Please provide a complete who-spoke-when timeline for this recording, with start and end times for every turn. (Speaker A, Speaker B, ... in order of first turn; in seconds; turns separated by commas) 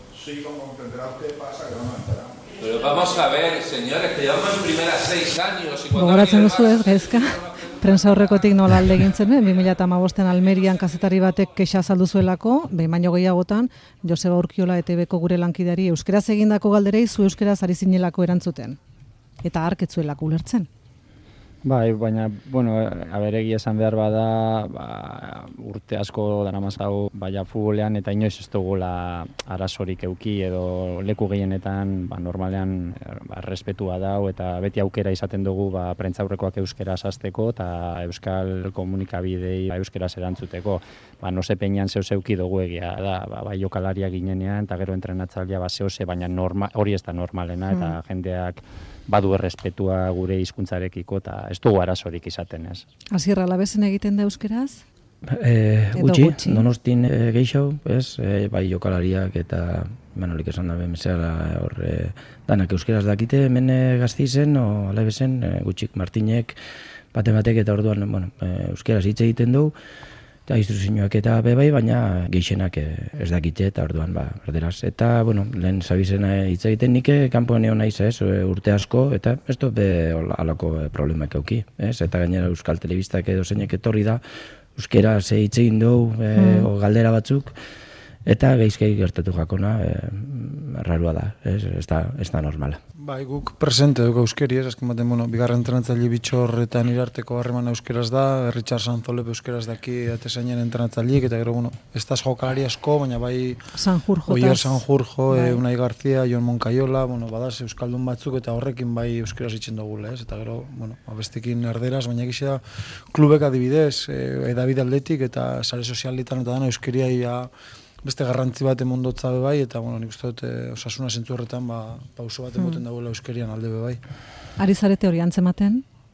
Speaker A: 2.6-6.8, Speaker B: 5.9-18.8, Speaker B: 19.4-20.7, Speaker C: 21.6-52.8, Speaker B: 53.1-54.8, Speaker D: 55.3-66.6, Speaker B: 56.0-56.7, Speaker D: 67.1-69.7, Speaker D: 70.5-84.2, Speaker D: 84.8-87.5, Speaker B: 86.3-86.7, Speaker D: 88.3-92.8, Speaker E: 93.0-103.6, Speaker B: 103.7-105.6, Speaker E: 104.3-117.5, Speaker E: 118.0-124.0, Speaker B: 124.6-125.8